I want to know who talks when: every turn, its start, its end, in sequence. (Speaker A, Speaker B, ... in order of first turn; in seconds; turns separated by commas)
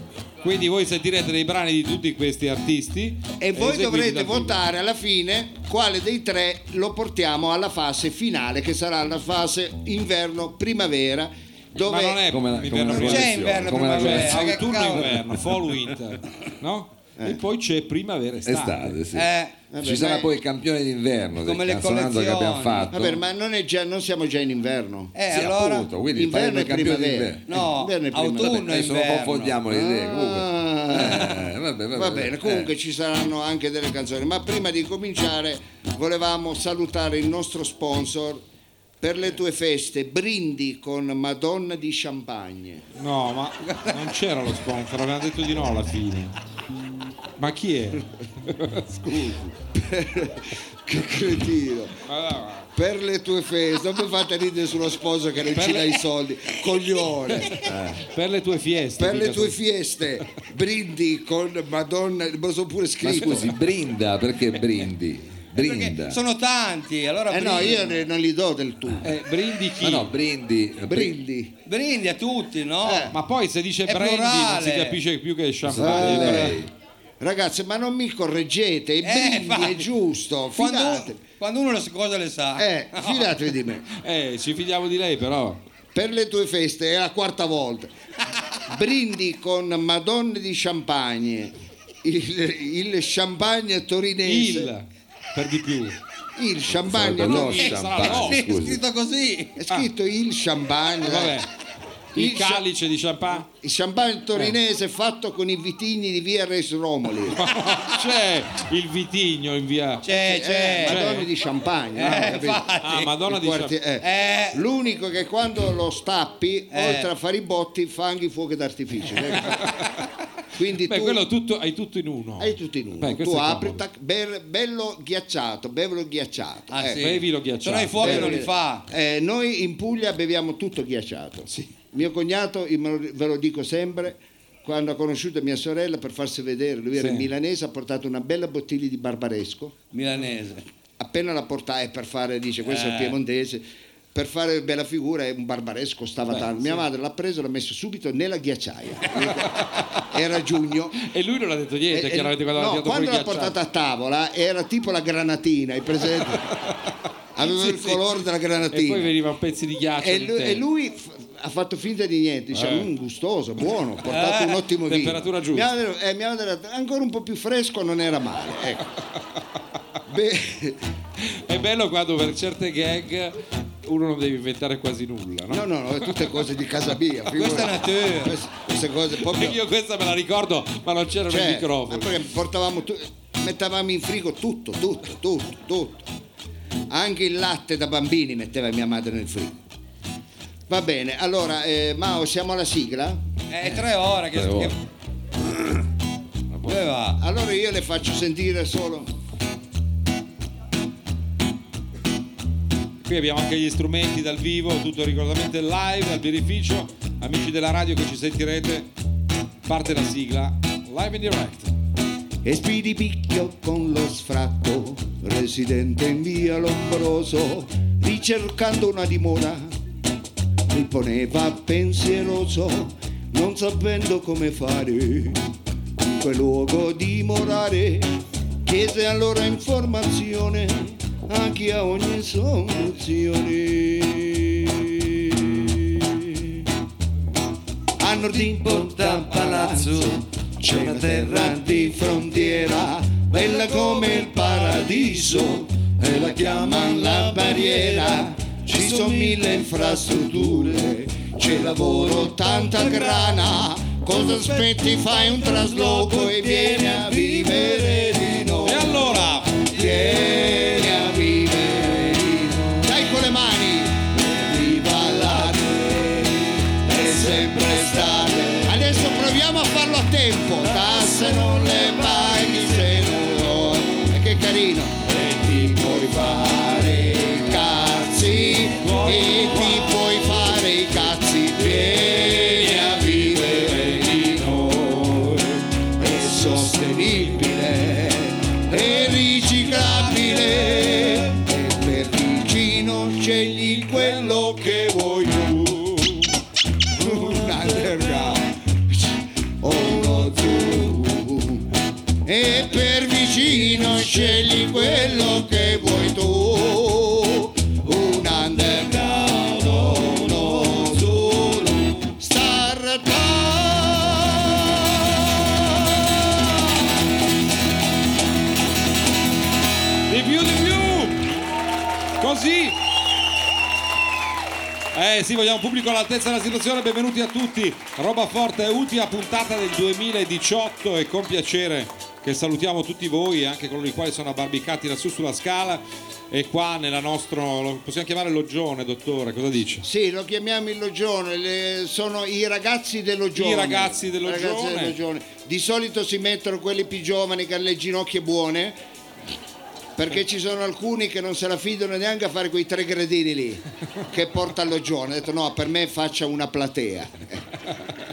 Speaker A: 0.4-4.6, Speaker B: 3.4-12.3, Speaker A: 11.8-19.0, Speaker C: 12.2-14.7, Speaker D: 12.9-15.2, Speaker C: 18.4-19.3, Speaker D: 19.1-19.6, Speaker B: 19.7-20.3, Speaker C: 19.8-23.2, Speaker D: 21.4-22.9, Speaker B: 22.9-25.2, Speaker D: 25.1-25.9, Speaker C: 25.3-27.6, Speaker B: 26.1-28.6, Speaker D: 27.5-29.6, Speaker C: 28.4-32.7, Speaker B: 29.7-31.4, Speaker D: 31.0-31.3, Speaker B: 31.9-38.4, Speaker B: 39.0-42.8, Speaker A: 43.0-46.3, Speaker D: 43.7-44.0, Speaker A: 47.4-48.9, Speaker B: 48.9-52.0, Speaker A: 52.1-52.7, Speaker B: 52.8-57.7, Speaker A: 55.5-56.0, Speaker C: 57.5-58.0, Speaker A: 58.0-59.6, Speaker B: 59.0-63.6, Speaker C: 63.0-66.2, Speaker D: 65.6-68.0, Speaker B: 67.3-69.1, Speaker A: 69.0-70.1, Speaker C: 69.8-71.2, Speaker B: 70.9-71.5, Speaker D: 71.7-73.1, Speaker B: 72.8-73.1, Speaker A: 73.1-76.6, Speaker D: 73.9-75.0, Speaker C: 75.6-76.7, Speaker B: 75.8-76.6, Speaker B: 77.2-81.2, Speaker D: 79.0-79.9, Speaker D: 80.5-83.4, Speaker B: 82.6-83.8, Speaker A: 83.9-85.6, Speaker B: 85.9-87.9, Speaker B: 88.7-94.7, Speaker A: 94.2-96.0, Speaker B: 96.4-97.9, Speaker C: 96.7-98.8, Speaker A: 97.3-98.4, Speaker D: 97.6-99.6, Speaker B: 99.6-101.4, Speaker A: 101.0-101.5, Speaker B: 102.2-102.6, Speaker A: 102.2-103.5, Speaker B: 103.5-107.5, Speaker A: 107.3-110.1, Speaker D: 110.0-111.1, Speaker B: 110.1-112.7, Speaker A: 110.8-111.3, Speaker D: 112.0-113.2, Speaker A: 112.0-113.8, Speaker B: 113.2-119.7, Speaker D: 114.0-114.6, Speaker D: 116.7-117.1, Speaker B: 120.5-121.2, Speaker A: 120.9-123.8, Speaker B: 122.4-127.1, Speaker D: 126.7-128.8, Speaker A: 126.9-128.4, Speaker B: 128.0-139.8, Speaker A: 136.9-137.3, Speaker D: 139.9-140.7, Speaker B: 141.0-151.0, Speaker D: 142.6-143.2, Speaker A: 146.3-146.8, Speaker A: 149.6-149.8, Speaker A: 151.0-153.6, Speaker B: 151.9-156.6, Speaker B: 157.4-159.1, Speaker A: 157.4-158.0, Speaker A: 158.7-160.7, Speaker B: 160.0-168.8, Speaker A: 162.5-162.9, Speaker D: 164.1-164.6, Speaker A: 164.9-165.7, Speaker B: 170.1-170.8, Speaker A: 171.2-176.2, Speaker B: 175.5-179.6, Speaker D: 177.3-178.4, Speaker A: 179.2-182.1, Speaker B: 181.3-186.1, Speaker B: 186.9-189.6, Speaker B: 190.7-193.2, Speaker D: 193.5-194.8, Speaker C: 194.3-194.7, Speaker C: 196.5-196.8, Speaker D: 196.7-197.2, Speaker B: 197.2-199.1, Speaker A: 203.0-208.9, Speaker A: 209.7-211.7, Speaker B: 212.4-219.7, Speaker B: 220.7-225.4, Speaker B: 226.0-236.6, Speaker B: 238.0-296.3, Speaker A: 258.6-259.7, Speaker A: 278.8-279.9, Speaker B: 296.9-301.7, Speaker B: 302.2-316.6, Speaker A: 320.1-321.3, Speaker A: 322.2-322.8, Speaker A: 324.9-339.9, Speaker B: 339.8-348.8, Speaker A: 343.4-345.0, Speaker B: 350.0-357.4